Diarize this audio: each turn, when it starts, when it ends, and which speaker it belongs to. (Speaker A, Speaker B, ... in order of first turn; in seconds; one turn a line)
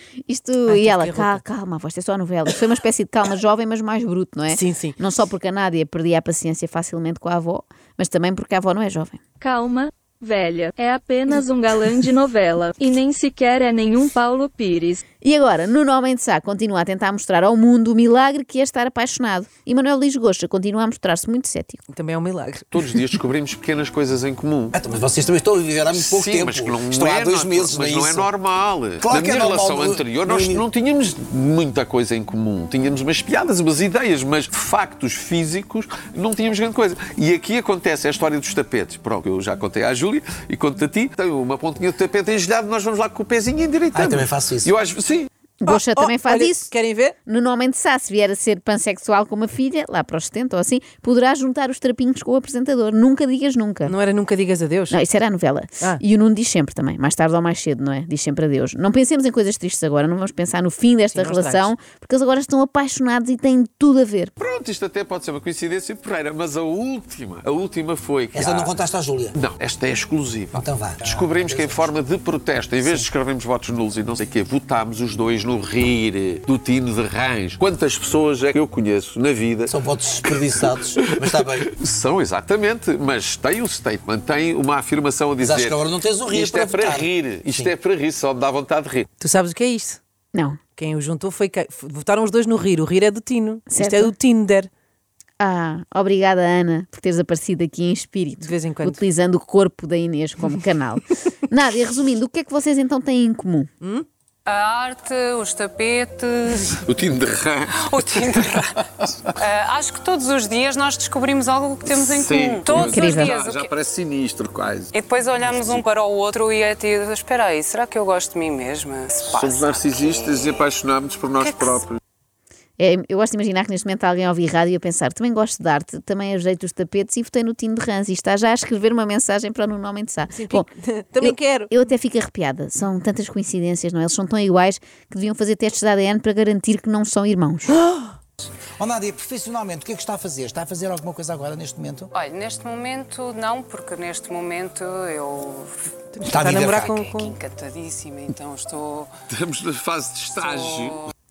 Speaker A: 0.3-9.2
Speaker B: 0.7-1.4
Speaker B: 4.5-5.0
Speaker C: 9.4-15.0
Speaker A: 15.2-21.8
Speaker B: 21.9-23.0
Speaker D: 22.7-24.8
Speaker E: 24.7-28.3
Speaker D: 25.9-45.3
Speaker E: 29.0-30.7
Speaker E: 43.9-44.7
Speaker A: 45.6-46.7
Speaker B: 45.7-47.2
Speaker A: 47.3-53.9
Speaker B: 53.9-55.0
Speaker A: 54.9-64.3
Speaker B: 61.1-61.7
Speaker D: 64.4-68.7
Speaker E: 68.3-69.3
Speaker D: 69.3-79.7
Speaker E: 70.5-71.9
Speaker E: 79.7-81.7
Speaker D: 81.0-89.1
Speaker E: 85.4-87.7
Speaker B: 89.2-90.0
Speaker B: 90.8-94.7
Speaker A: 93.7-94.1
Speaker A: 95.4-103.7
Speaker B: 98.4-99.0
Speaker B: 103.8-104.1
Speaker F: 104.5-106.8
Speaker D: 106.8-109.3
Speaker F: 107.8-108.8
Speaker F: 109.3-113.7
Speaker D: 111.9-115.8
Speaker A: 112.7-113.3
Speaker F: 114.9-120.6
Speaker D: 119.3-122.0
Speaker B: 121.4-121.8
Speaker A: 122.8-130.7
Speaker B: 130.3-131.7
Speaker A: 131.2-137.8
Speaker B: 137.7-138.1
Speaker E: 138.8-142.1
Speaker F: 142.2-145.9
Speaker B: 146.1-147.3
Speaker E: 146.3-146.9
Speaker F: 146.8-149.1
Speaker D: 149.3-151.1
Speaker F: 150.4-151.0